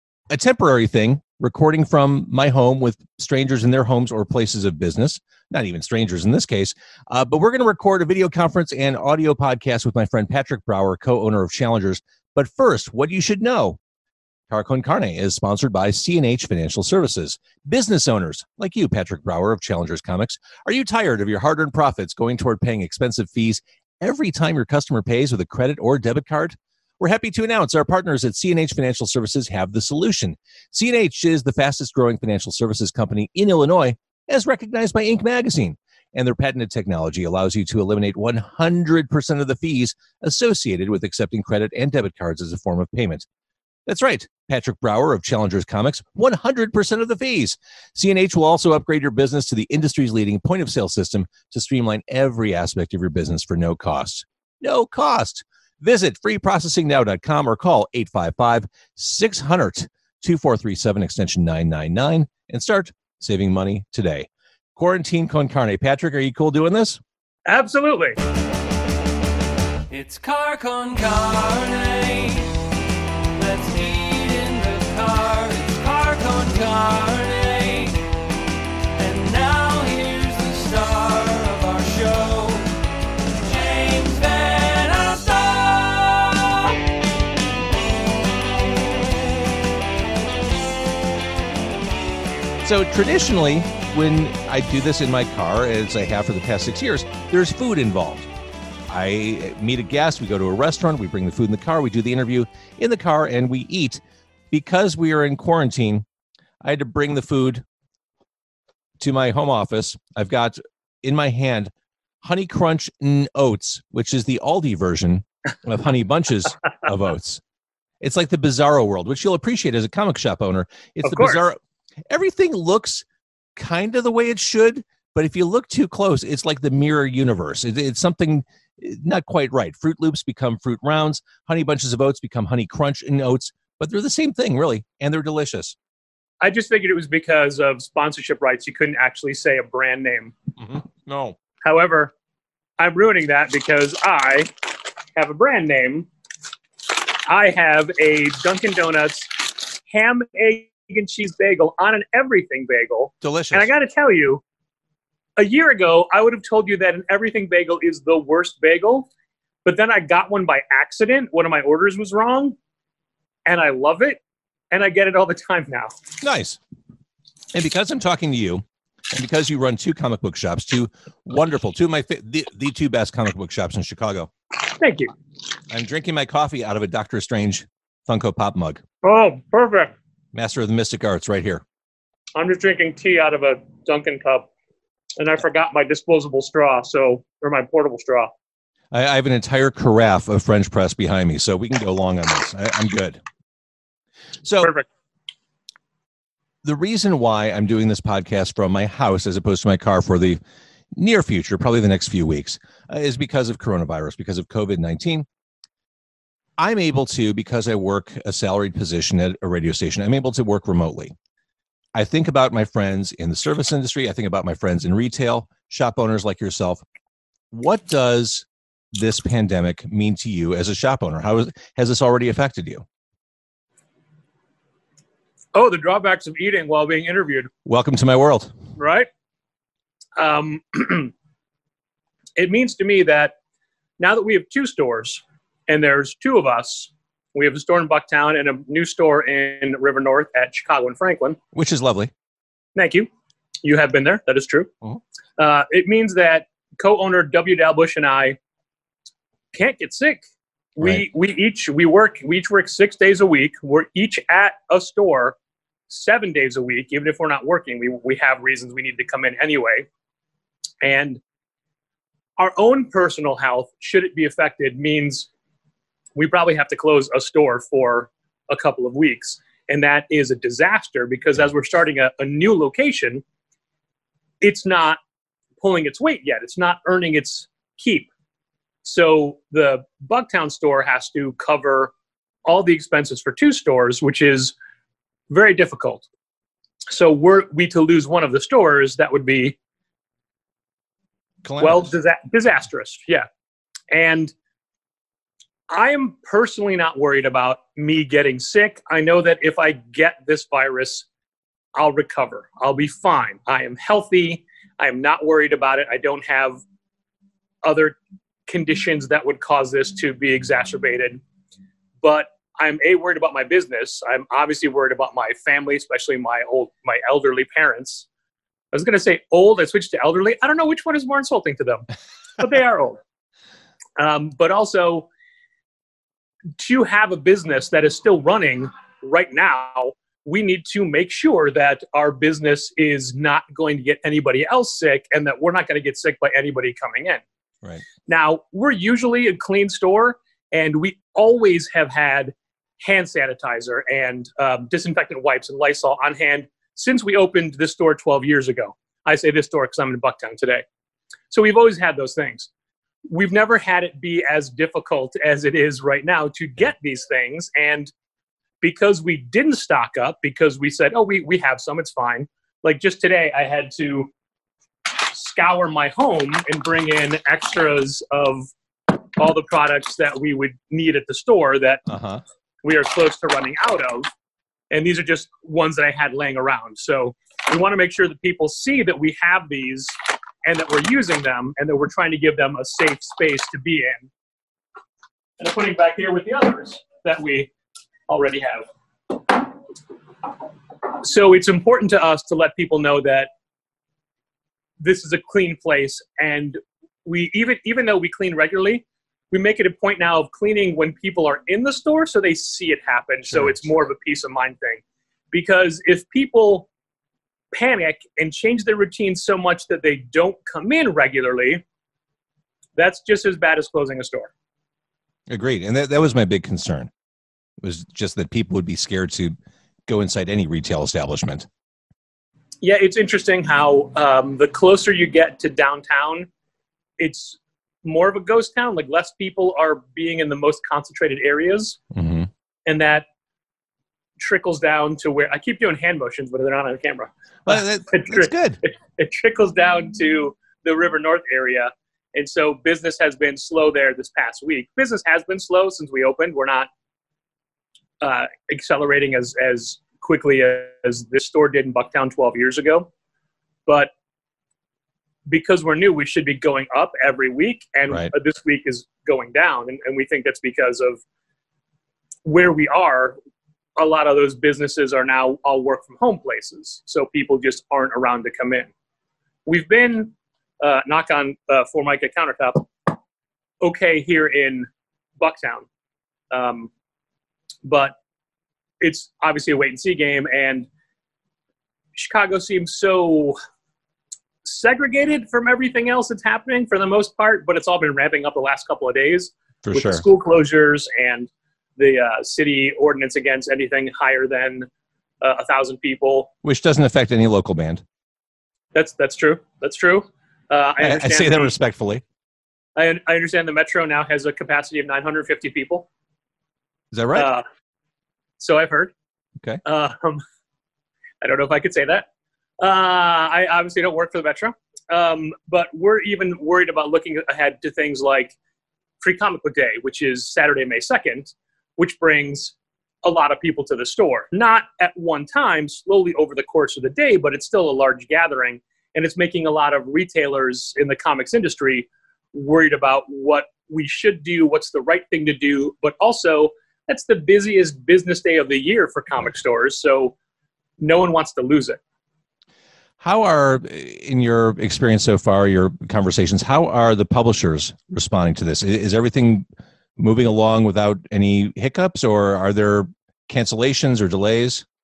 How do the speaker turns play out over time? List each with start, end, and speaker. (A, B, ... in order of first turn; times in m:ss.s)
0:00.3-0:13.8 A
0:14.5-0:43.2 A
0:43.9-1:07.0 A
1:07.5-1:08.2 B
1:09.9-1:12.6 C
1:13.3-1:18.1 C
1:19.0-1:22.8 C
1:23.4-1:26.8 C
1:32.6-1:38.3 A
1:38.9-1:46.0 A
1:46.6-1:47.6 A
1:49.0-1:57.4 A
1:58.0-2:01.6 A
2:01.0-2:01.4 B
2:02.1-2:03.0 A
2:03.6-2:15.7 A
2:16.4-2:20.3 B
2:20.6-2:21.3 A
2:21.6-2:22.1 B
2:22.8-2:26.1 B
2:26.9-2:34.4 B
2:33.2-2:33.7 A
2:35.4-2:39.1 B
2:39.6-2:42.5 B
2:43.4-2:44.2 B
2:44.7-2:45.9 B
2:46.2-2:46.6 A
2:47.5-2:54.3 A
2:54.6-2:55.1 B
2:55.7-2:58.8 A
2:59.0-2:59.9 B
3:00.3-3:01.6 A
3:02.3-3:04.5 B
3:05.2-3:08.3 B
3:08.9-3:13.2 A
3:14.4-3:14.7 A
3:14.6-3:14.8 B
3:16.6-3:20.4 A
3:20.9-3:25.2 A
3:26.6-3:31.1 A
3:31.9-3:36.8 A
3:37.5-3:42.8 A
3:45.5-3:47.5 B
3:47.6-3:48.5 A
3:48.8-3:49.1 B
3:50.2-3:51.1 B
3:52.4-3:53.3 B
3:54.0-4:01.4 B
4:01.5-4:02.1 A
4:02.7-4:03.1 B
4:03.6-4:04.7 B
4:05.4-4:08.4 B
4:09.5-4:10.2 B
4:10.8-4:15.3 B
4:10.8-4:11.0 A
4:15.9-4:19.9 B
4:20.8-4:21.2 B
4:22.4-4:25.3 B
4:26.2-4:33.2 B
4:34.4-4:35.0 B
4:35.6-4:38.1 B
4:38.8-4:41.9 B
4:42.4-4:44.5 B
4:45.3-4:46.0 B
4:46.9-4:49.6 B
4:51.4-4:51.9 A
4:51.6-4:53.2 B
4:53.9-4:54.3 B
4:55.7-5:01.1 B
5:01.8-5:06.6 B
5:07.6-5:11.2 B
5:12.0-5:18.1 B
5:18.7-5:21.8 B
5:22.4-5:23.0 B
5:24.0-5:25.1 B
5:26.6-5:37.2 B
5:38.1-5:50.6 B
5:51.3-5:52.5 B
5:53.1-5:57.9 B
5:58.6-6:04.1 B
6:04.8-6:11.8 B
6:11.9-6:12.2 A
6:12.6-6:14.1 B
6:14.7-6:19.9 B
6:20.4-6:24.1 B
6:25.4-6:27.5 B
6:28.1-6:29.6 B
6:30.9-6:33.3 B
6:34.8-6:46.7 B
6:47.5-6:51.6 B
6:52.8-6:54.3 B
6:55.3-6:56.9 A
6:57.6-6:59.3 A
6:59.9-7:01.5 A
7:02.6-7:06.3 B
7:07.0-7:11.8 B
7:11.9-7:12.3 A
7:12.6-7:13.0 B
7:14.2-7:26.7 B
7:17.5-7:18.6 A
7:28.0-7:32.9 B
7:35.3-7:41.0 B
7:42.2-7:43.2 B
7:43.8-7:48.7 B
7:49.4-7:53.0 B
7:53.6-7:54.7 B
7:55.2-7:55.6 B
7:56.3-7:56.7 B
7:57.6-7:58.0 B
7:58.8-8:00.7 B
8:02.0-8:03.4 B
8:04.4-8:14.7 B
8:09.6-8:10.0 A
8:15.2-8:16.3 B
8:16.4-8:17.8 A
8:18.7-8:21.5 B
8:20.8-8:22.0 A
8:22.8-8:25.9 B
8:26.9-8:27.3 A
8:27.1-8:27.4 B
8:28.4-8:28.9 B
8:29.6-8:30.2 B
8:31.2-8:32.0 B
8:32.6-8:38.3 B
8:39.0-9:00.1 B
9:00.8-9:01.8 B
9:03.0-9:09.4 A
9:10.0-9:14.6 A